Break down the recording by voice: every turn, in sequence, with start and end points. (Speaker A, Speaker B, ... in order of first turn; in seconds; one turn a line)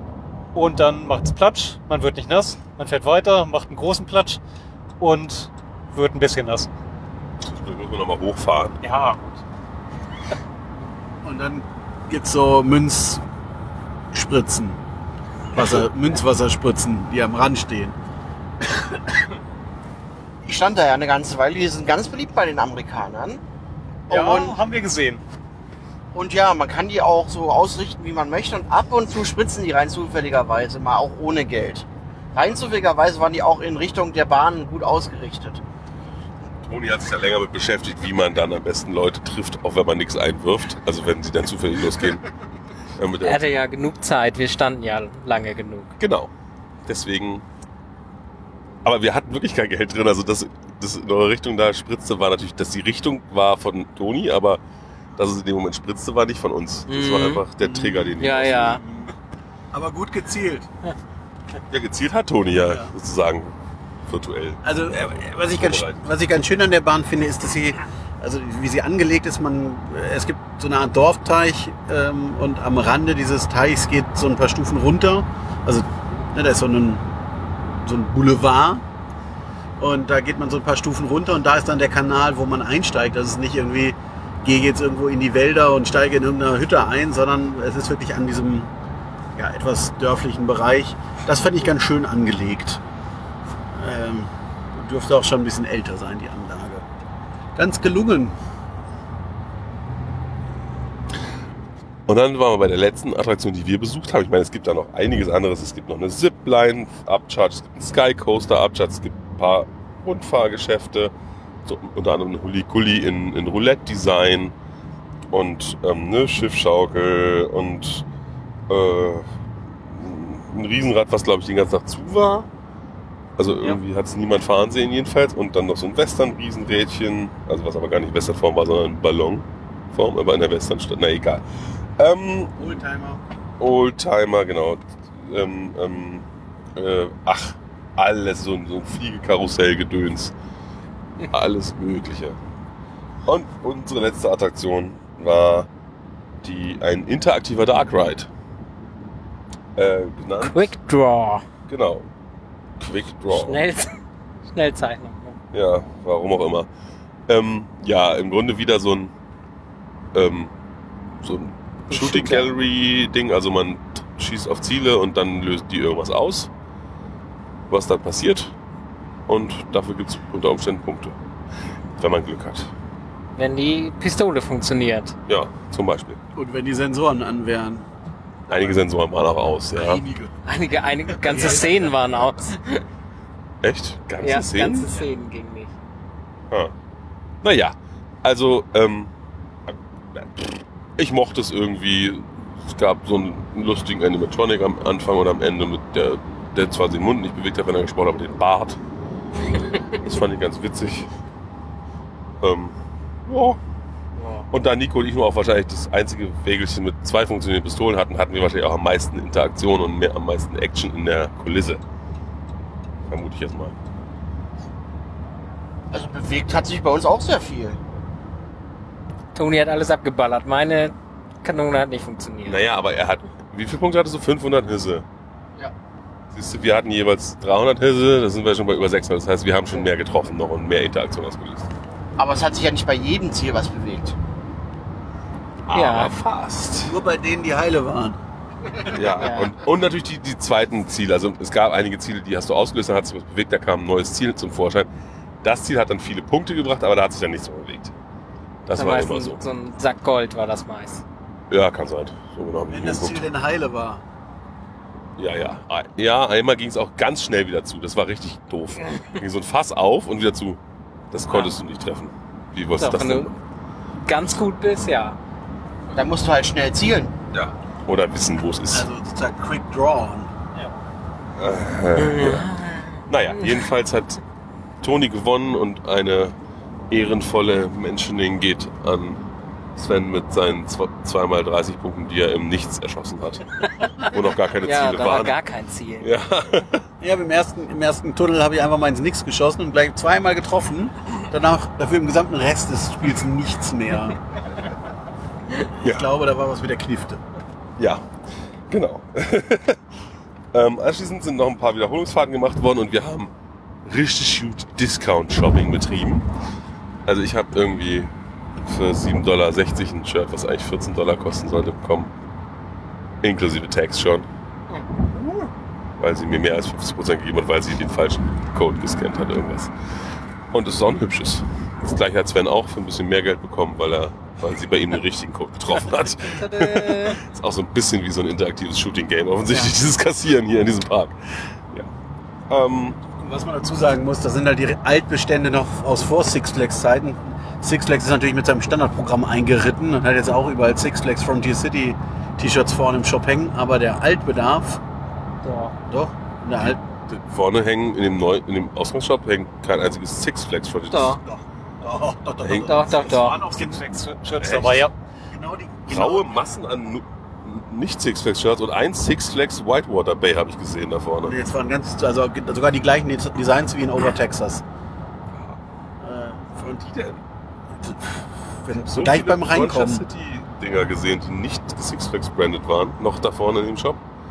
Speaker A: 0.5-4.4
Speaker A: 5.0-6.7
Speaker B: 7.4-8.8
Speaker A: 8.8-9.4
Speaker C: 11.2-13.2
Speaker C: 14.1-14.8
Speaker C: 15.5-17.9
Speaker D: 20.4-23.4
Speaker D: 24.1-24.6
Speaker A: 24.1-25.2
Speaker D: 26.1-35.6
Speaker B: 36.6-42.2
Speaker B: 43.0-43.5
Speaker E: 43.2-46.0
Speaker B: 46.0-46.3
Speaker B: 46.9-47.4
Speaker B: 48.8-54.6
Speaker B: 55.2-58.8
Speaker E: 56.9-57.4
Speaker C: 57.6-59.1
Speaker E: 58.2-58.8
Speaker C: 59.7-60.7
Speaker B: 61.7-63.5
Speaker C: 62.6-62.9
Speaker B: 64.1-66.1
Speaker C: 64.6-77.1
Speaker C: 77.8-78.8
Speaker C: 79.8-88.7
Speaker C: 89.3-92.8
Speaker C: 93.7-96.8
Speaker C: 97.5-98.3
Speaker B: 102.1-111.1
Speaker B: 111.6-114.5
Speaker B: 115.3-118.0
Speaker B: 118.7-119.3
Speaker B: 119.8-122.5
Speaker B: 123.4-131.4
Speaker B: 132.0-132.6
Speaker C: 132.6-133.2
Speaker B: 133.6-140.3
Speaker B: 141.3-142.4
Speaker B: 143.2-145.7
Speaker B: 146.4-148.3
Speaker B: 149.8-150.7
Speaker E: 150.4-151.4
Speaker B: 151.7-152.1
Speaker B: 152.8-153.6
Speaker E: 153.3-155.4
Speaker B: 155.5-156.7
Speaker B: 157.3-159.1
Speaker B: 160.1-160.5
Speaker B: 161.2-166.5
Speaker E: 161.9-162.5
Speaker B: 167.7-168.5
Speaker B: 169.3-171.2
Speaker B: 172.0-172.7
Speaker E: 173.3-175.1
Speaker B: 175.3-176.2
Speaker C: 176.3-177.9
Speaker B: 178.5-180.0
Speaker C: 179.7-180.3
Speaker E: 180.4-182.8
Speaker C: 181.2-181.8
Speaker B: 183.6-184.9
Speaker E: 184.2-185.7
Speaker B: 187.4-189.1
Speaker B: 189.7-198.8
Speaker B: 199.9-201.1
Speaker B: 202.4-203.6
Speaker E: 204.2-204.4
Speaker B: 204.5-211.8
Speaker B: 213.1-213.8
Speaker D: 215.9-217.8
Speaker E: 219.3-222.6
Speaker B: 222.4-225.0
Speaker B: 226.3-231.7
Speaker D: 232.2-234.2
Speaker B: 235.7-237.0
Speaker E: 235.7-236.1
Speaker C: 236.8-238.2
Speaker B: 238.9-244.9
Speaker E: 239.0-239.5
Speaker B: 245.4-247.9
Speaker B: 248.7-249.4
Speaker E: 248.7-251.0
Speaker B: 251.5-253.3
Speaker C: 252.7-254.0
Speaker B: 255.2-260.6
Speaker B: 261.1-263.4
Speaker E: 262.8-263.3
Speaker E: 264.1-265.2
Speaker D: 265.9-267.1
Speaker B: 267.3-268.9
Speaker C: 268.7-270.3
Speaker B: 271.4-274.2
Speaker E: 272.0-272.8
Speaker B: 274.8-276.3
Speaker B: 276.9-279.2
Speaker B: 279.8-285.4
Speaker E: 283.9-286.1
Speaker B: 286.0-286.9
Speaker C: 287.0-294.2
Speaker C: 295.7-297.2
Speaker B: 295.8-296.1
Speaker B: 297.8-298.1
Speaker B: 298.7-299.8
Speaker B: 300.5-303.3
Speaker B: 303.8-306.3
Speaker B: 307.1-308.1
Speaker B: 308.6-312.1
Speaker B: 313.2-314.3
Speaker B: 316.0-319.7
Speaker B: 320.5-331.9
Speaker E: 326.3-327.2
Speaker B: 332.5-333.0
Speaker C: 333.1-344.8
Speaker E: 345.4-345.8
Speaker C: 345.9-346.8
Speaker B: 346.6-351.2
Speaker E: 350.9-351.2
Speaker C: 351.2-354.0
Speaker B: 352.4-352.8
Speaker E: 352.5-353.4
Speaker A: 353.3-354.9
Speaker B: 354.4-354.9
Speaker C: 355.3-356.4
Speaker B: 355.9-361.4
Speaker C: 361.2-364.6
Speaker B: 365.3-365.6
Speaker C: 366.0-366.8
Speaker B: 366.6-367.2
Speaker C: 367.8-370.0
Speaker B: 368.7-374.0